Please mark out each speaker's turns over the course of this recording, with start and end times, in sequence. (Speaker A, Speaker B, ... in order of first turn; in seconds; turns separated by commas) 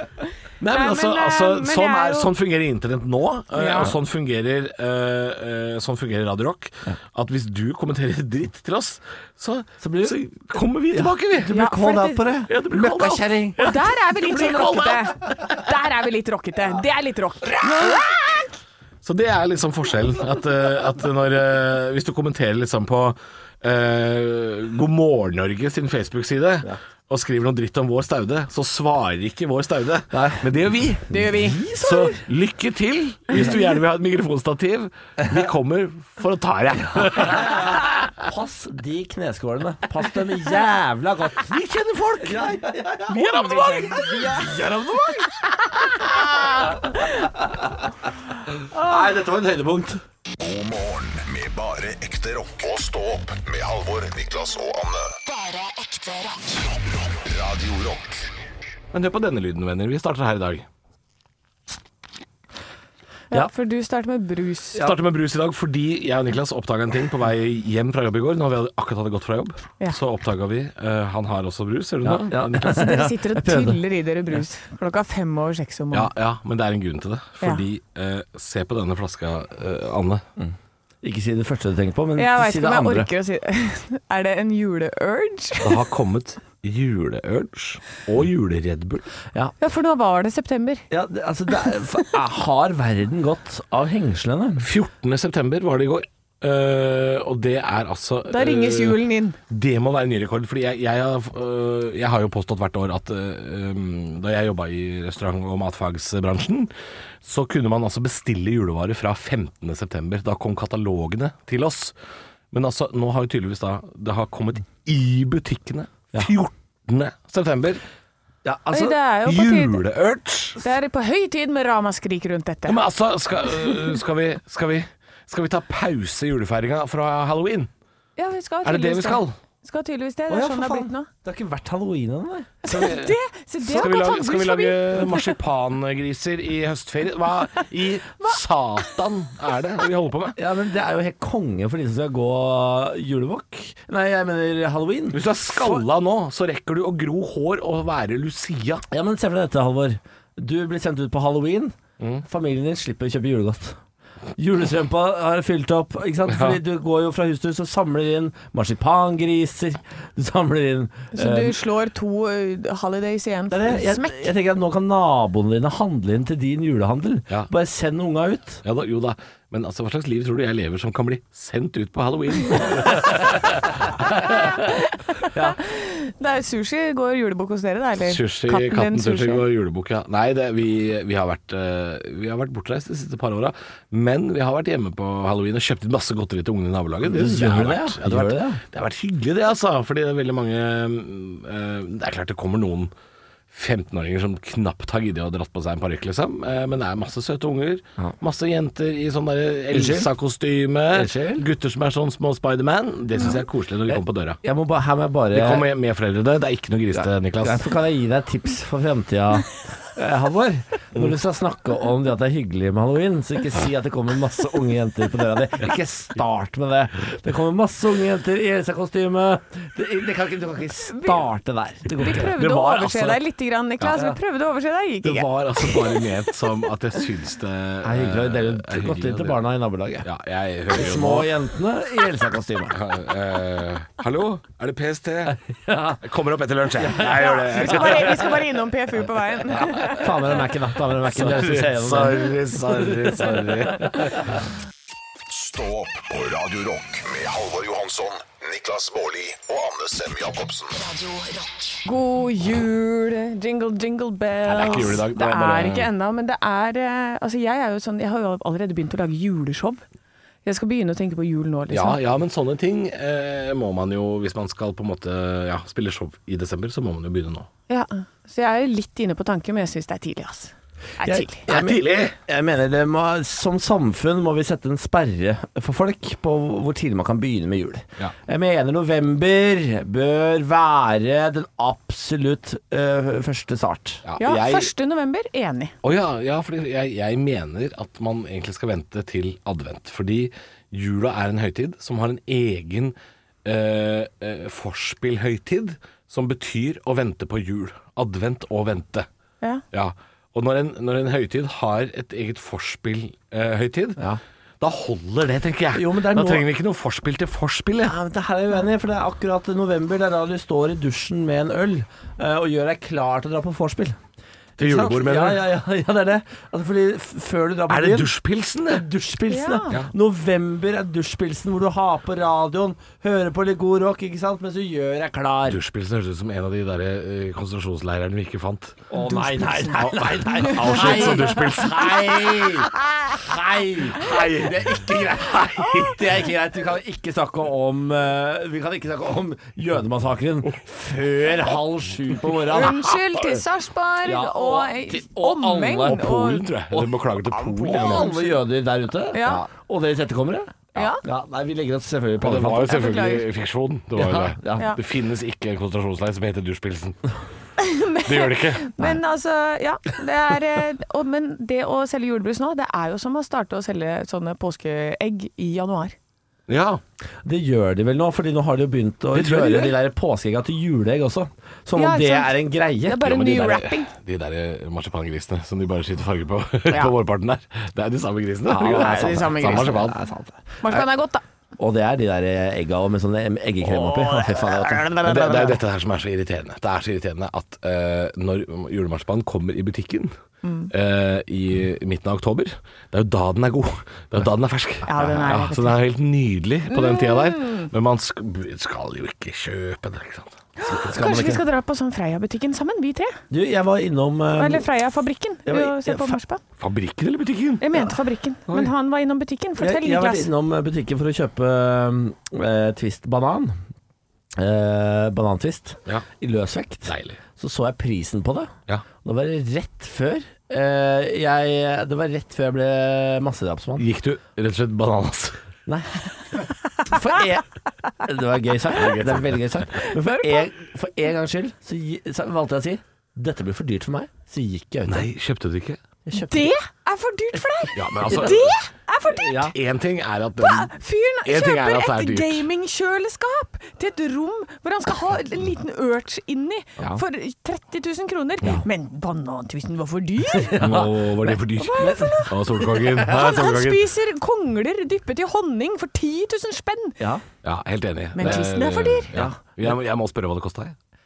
Speaker A: 0.6-11.5, Speaker B: 0.7-2.3, Speaker B: 3.5-3.9, Speaker C: 9.8-10.2, Speaker C: 10.9-13.7, Speaker B: 11.5-12.2, Speaker A: 12.5-15.6, Speaker B: 13.6-18.4, Speaker A: 19.0-31.1, Speaker C: 30.1-30.5, Speaker B: 31.1-31.6, Speaker C: 31.1-32.2, Speaker A: 31.8-38.1, Speaker C: 37.1-47.9, Speaker A: 41.5-42.3, Speaker B: 43.1-44.5, Speaker A: 43.5-43.8, Speaker C: 48.7-50.0, Speaker D: 50.4-55.1, Speaker E: 55.2-56.6, Speaker D: 56.9-58.2, Speaker A: 58.9-60.6, Speaker B: 63.3-64.8, Speaker A: 64.8-72.8, Speaker C: 72.0-73.8, Speaker B: 72.6-76.1, Speaker A: 75.9-80.2, Speaker C: 80.4-83.1, Speaker B: 82.2-85.8, Speaker A: 85.6-89.0, Speaker B: 89.6-90.8, Speaker C: 90.9-94.7, Speaker A: 94.6-106.7, Speaker B: 98.3-99.4, Speaker A: 107.2-111.9, Speaker A: 112.5-117.8, Speaker C: 118.4-119.0, Speaker B: 118.7-119.8, Speaker A: 119.2-120.6, Speaker B: 120.6-122.8, Speaker A: 122.7-127.7, Speaker B: 128.2-131.1, Speaker A: 128.6-129.4, Speaker C: 130.3-132.6, Speaker B: 132.6-135.3, Speaker A: 132.7-140.4, Speaker C: 140.4-145.9, Speaker A: 145.1-148.8, Speaker C: 148.9-153.8, Speaker A: 152.0-152.2, Speaker C: 154.4-161.6, Speaker A: 156.3-156.6, Speaker B: 161.1-164.3, Speaker C: 163.5-168.6, Speaker A: 168.6-174.2, Speaker B: 174.3-179.4, Speaker A: 178.0-192.9, Speaker C: 187.0-188.6, Speaker A: 193.5-204.4, Speaker C: 199.7-200.1, Speaker C: 200.9-201.4, Speaker C: 203.9-205.7, Speaker A: 205.3-207.6, Speaker C: 206.9-222.4, Speaker B: 220.8-221.2, Speaker B: 222.0-226.0, Speaker A: 222.1-223.2, Speaker A: 223.8-224.0, Speaker A: 225.0-229.4, Speaker C: 227.8-230.1, Speaker A: 230.0-231.3, Speaker C: 230.7-232.8, Speaker A: 232.8-235.4, Speaker C: 235.3-236.0, Speaker A: 236.0-238.4, Speaker C: 236.8-238.2, Speaker B: 236.9-240.3, Speaker C: 239.8-243.9, Speaker A: 241.0-244.3, Speaker D: 245.3-250.8, Speaker E: 250.8-251.8, Speaker B: 251.8-259.8, Speaker A: 254.4-255.9, Speaker B: 260.4-262.0, Speaker A: 261.7-267.5, Speaker B: 267.7-271.4, Speaker C: 271.0-284.0, Speaker A: 271.5-272.2, Speaker A: 284.0-284.7, Speaker B: 284.2-285.8, Speaker A: 285.8-299.1, Speaker A: 299.7-304.0, Speaker A: 304.6-307.9, Speaker C: 305.7-306.4, Speaker C: 307.8-314.0, Speaker A: 314.6-315.5, Speaker C: 314.6-318.1, Speaker A: 317.7-318.8, Speaker C: 318.7-325.6, Speaker B: 319.3-319.7, Speaker A: 325.5-328.8, Speaker C: 328.9-342.9, Speaker B: 329.0-329.7, Speaker A: 329.7-332.6, Speaker B: 330.4-331.3, Speaker A: 334.0-335.6, Speaker B: 342.5-346.5, Speaker C: 344.0-346.1, Speaker A: 345.8-348.2, Speaker C: 346.7-352.8, Speaker B: 347.8-348.0, Speaker B: 349.1-349.4, Speaker B: 350.8-351.0, Speaker A: 352.2-357.1, Speaker B: 352.7-353.2, Speaker C: 353.9-354.8, Speaker B: 357.6-365.9, Speaker A: 358.0-358.8, Speaker A: 366.5-366.8, Speaker C: 367.2-373.2, Speaker A: 369.1-369.8, Speaker B: 371.8-373.9, Speaker A: 373.0-380.0, Speaker C: 378.4-380.8, Speaker B: 378.6-379.8, Speaker B: 380.6-381.2, Speaker C: 381.6-385.5, Speaker B: 383.7-385.5, Speaker A: 385.0-390.1, Speaker B: 390.4-390.7, Speaker A: 390.7-400.4, Speaker B: 394.9-395.8, Speaker B: 396.7-397.7, Speaker B: 400.6-403.2, Speaker C: 400.7-401.4, Speaker C: 403.3-404.7, Speaker B: 404.4-406.4, Speaker C: 405.4-406.2, Speaker A: 406.6-407.7, Speaker B: 407.6-410.3, Speaker C: 409.6-413.6, Speaker C: 414.4-423.9, Speaker A: 416.9-417.2, Speaker A: 423.8-425.4, Speaker C: 425.6-427.4, Speaker C: 428.0-435.1, Speaker A: 428.8-429.6, Speaker B: 429.8-430.4, Speaker A: 434.9-435.8, Speaker C: 436.1-436.6, Speaker B: 436.1-439.5, Speaker A: 437.7-438.6, Speaker C: 439.1-439.6, Speaker A: 439.5-440.7, Speaker B: 440.4-450.7, Speaker A: 441.2-442.4, Speaker C: 450.3-452.9, Speaker A: 450.6-453.9, Speaker B: 451.5-457.0, Speaker C: 457.0-457.2, Speaker A: 457.4-460.7, Speaker B: 458.1-459.1, Speaker C: 458.2-458.4, Speaker C: 459.1-459.7